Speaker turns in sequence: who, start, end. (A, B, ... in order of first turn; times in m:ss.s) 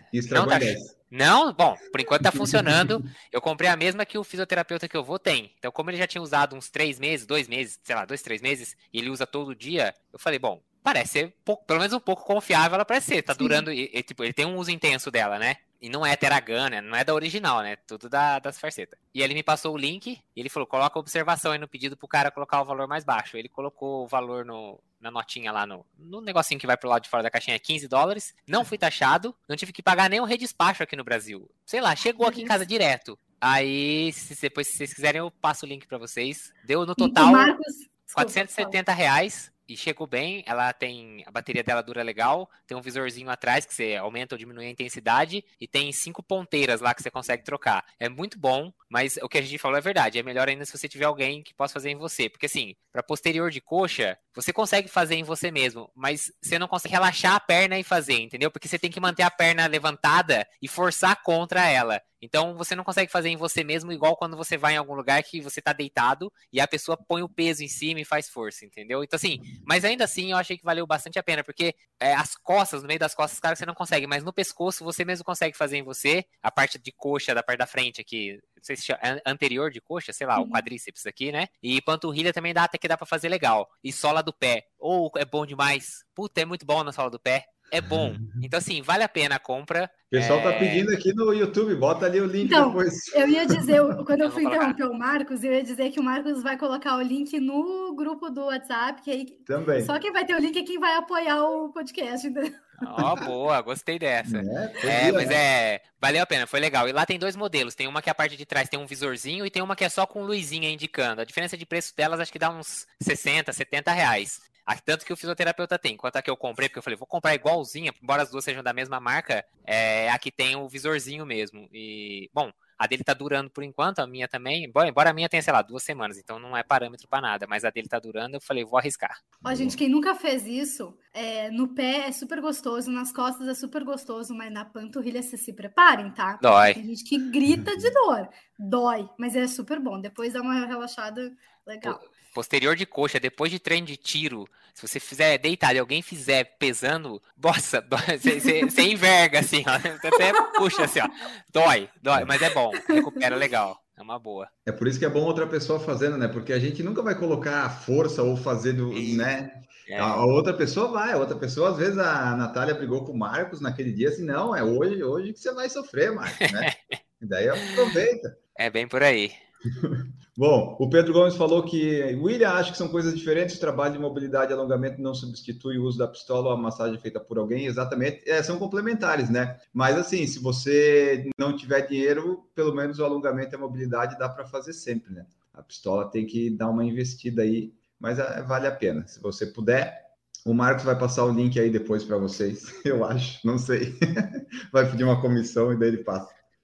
0:00.1-0:01.0 A
0:00.3-0:37.5 B
0:02.2-0:03.0 A
0:13.3-0:13.7 C
0:32.2-0:32.6 C
0:37.0-0:38.8 C
0:38.2-1:30.9 B
1:20.4-1:20.6 C
1:27.9-1:28.5 A
1:30.1-1:34.0 A
1:32.4-1:42.6 C
1:34.2-1:34.8 B
1:39.5-1:39.9 A
1:42.8-2:09.2 B
1:43.0-1:43.3 A
1:44.2-1:45.4 A
2:09.4-2:09.8 A
2:09.4-2:22.0 C
2:16.4-2:16.8 B
2:17.5-2:17.9 A
2:21.8-2:34.5 B
2:28.3-2:28.7 C
2:30.2-2:30.8 C
2:34.7-2:48.4 A
2:38.9-2:39.3 B
2:39.9-2:40.3 B
2:48.6-2:49.4 B
2:49.7-3:16.4 A